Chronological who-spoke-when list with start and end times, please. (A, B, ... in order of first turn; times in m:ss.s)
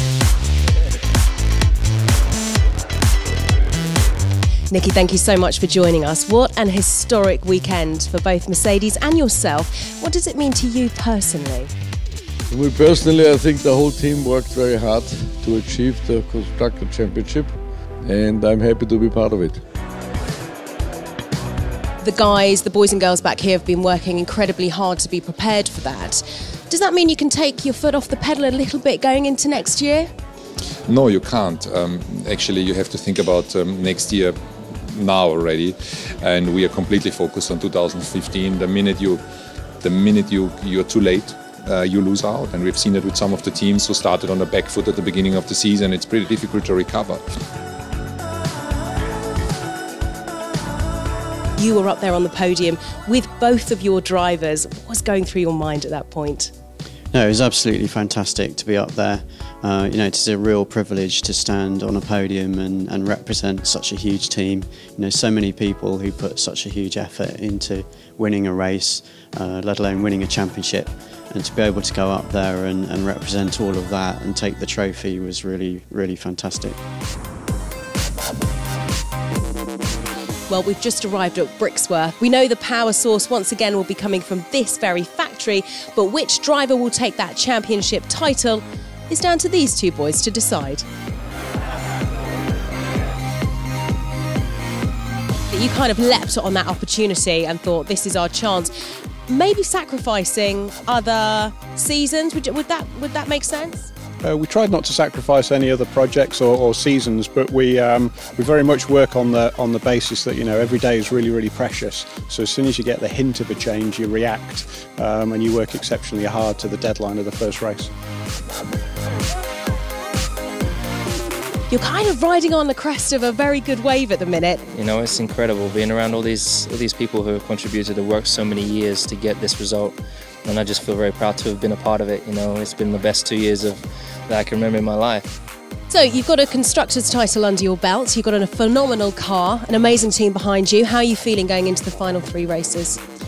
0:04.7-0:11.7 A
0:12.5-0:17.5 B
0:18.1-0:19.6 B
0:22.0-0:30.1 A
0:30.9-0:34.4 C
0:34.9-0:39.2 C
0:39.8-0:47.4 C
0:51.6-0:56.5 A
0:57.1-1:16.8 D
1:20.5-1:30.8 A
1:35.5-1:38.7 A
1:39.3-1:43.9 A
1:44.2-1:57.9 E
2:01.7-2:04.6 A
2:04.7-2:15.3 F
2:15.9-2:23.0 A